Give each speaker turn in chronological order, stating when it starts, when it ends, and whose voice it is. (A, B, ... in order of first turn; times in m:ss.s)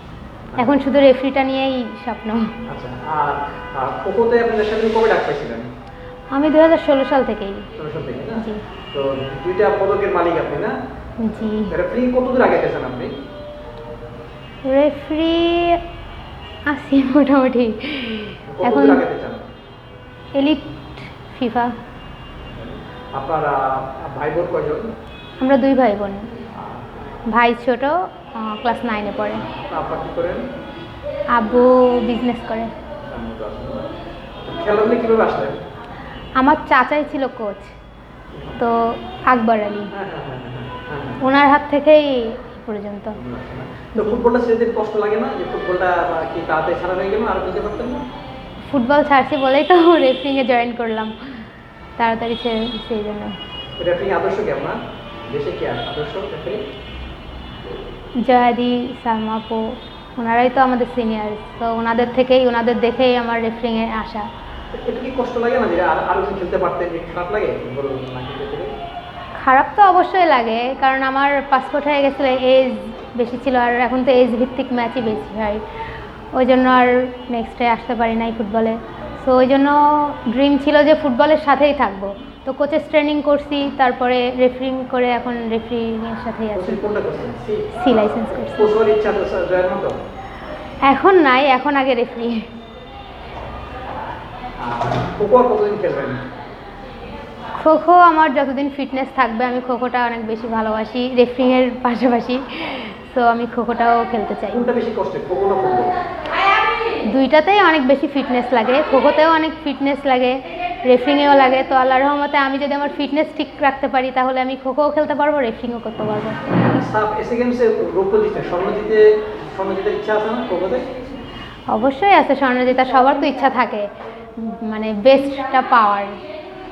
0:00.6-0:02.5 A
0:02.7-0:05.7 B
0:06.3-0:07.7 A
0:07.8-0:10.7 B
0:08.3-0:08.6 A
0:11.2-0:11.7 A
0:11.5-0:13.1 B
0:14.6-0:15.8 A
0:16.7-0:19.0 A
0:18.5-0:19.4 B
0:20.3-0:21.7 A
0:22.5-0:24.9 B
0:25.4-0:26.3 A
0:27.3-0:29.4 A
0:29.3-0:30.4 B
0:31.3-0:32.7 A
0:33.1-0:33.9 B
0:34.4-0:35.6 B
0:36.4-0:37.7 A
0:38.3-0:38.6 B
0:38.6-0:39.9 A
0:40.0-0:41.2 B
0:41.2-0:43.2 A
0:43.2-0:48.0 B
0:44.0-0:44.2 A
0:48.7-0:51.4 A
0:52.0-0:53.4 A
0:53.8-0:56.6 B
0:58.2-1:04.3 A
1:04.7-1:08.7 B
1:09.4-1:15.6 A
1:16.3-1:26.8 A
1:26.5-1:29.9 B
1:27.7-1:28.7 A
1:30.8-1:32.5 A
1:34.6-1:36.2 B
1:37.6-1:44.6 A
1:44.5-1:46.0 B
1:47.1-1:56.4 A
1:56.7-2:00.9 B
2:01.7-2:06.2 A